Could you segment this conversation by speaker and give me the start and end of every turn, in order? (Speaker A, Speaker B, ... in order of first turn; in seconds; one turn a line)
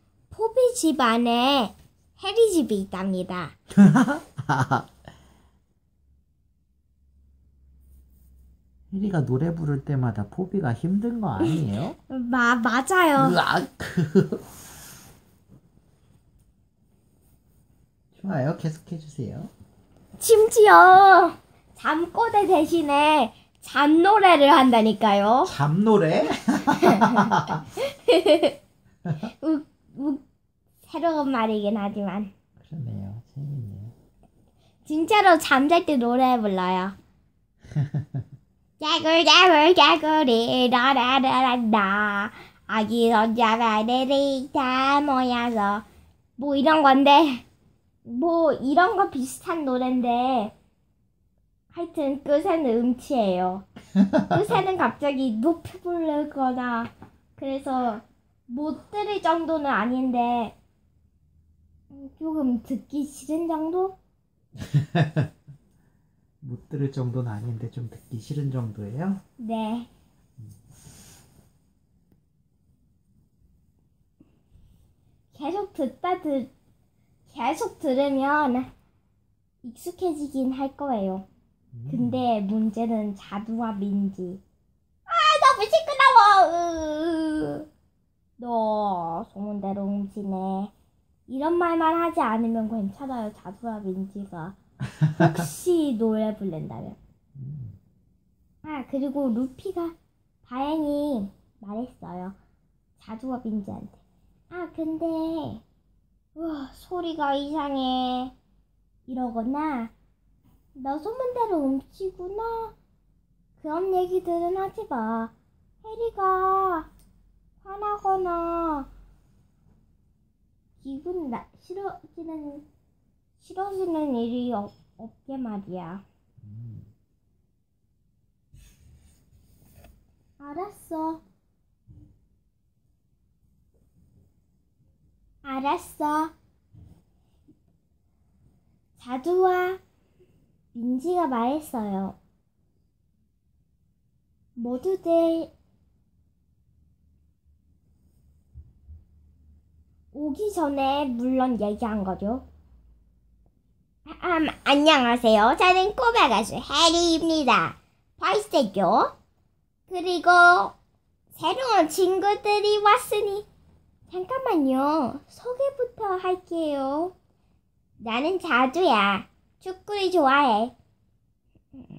Speaker A: 0.3-3.5
Speaker B: 3.7-4.9
Speaker B: 8.9-12.0
Speaker A: 12.1-13.4
Speaker B: 13.2-14.5
Speaker B: 18.1-19.5
Speaker A: 20.2-25.6
Speaker B: 25.5-27.6
Speaker A: 26.6-28.6
Speaker B: 29.1-29.3
Speaker A: 29.1-30.2
Speaker A: 30.8-32.3
Speaker B: 32.6-33.9
Speaker A: 34.9-37.0
Speaker B: 37.7-38.2
Speaker A: 38.8-45.9
Speaker A: 46.4-47.5
Speaker A: 48.0-50.5
Speaker A: 51.7-60.5
Speaker A: 61.9-64.0
Speaker B: 64.6-65.3
Speaker B: 66.4-69.2
Speaker A: 69.4-69.9
Speaker A: 75.3-76.5
Speaker A: 77.3-78.7
Speaker A: 79.6-81.3
Speaker B: 81.7-82.2
Speaker A: 81.9-84.4
Speaker A: 85.1-87.7
Speaker A: 88.4-90.7
Speaker A: 91.3-94.6
Speaker B: 94.9-95.5
Speaker A: 95.1-97.0
Speaker B: 97.4-97.8
Speaker A: 98.6-102.4
Speaker A: 103.0-105.6
Speaker A: 106.3-108.3
Speaker A: 109.1-109.9
Speaker A: 110.8-112.8
Speaker A: 113.6-116.9
Speaker A: 117.6-118.9
Speaker A: 120.8-122.7
Speaker A: 123.4-126.0
Speaker B: 126.4-126.9
Speaker A: 130.4-131.2
Speaker A: 135.4-136.3
Speaker A: 139.0-139.8
Speaker A: 140.7-142.2
Speaker A: 144.6-145.5
Speaker A: 150.1-152.4
Speaker A: 154.1-159.1
Speaker A: 159.9-160.8
Speaker A: 161.4-163.5
Speaker A: 164.1-167.2
Speaker A: 168.0-170.8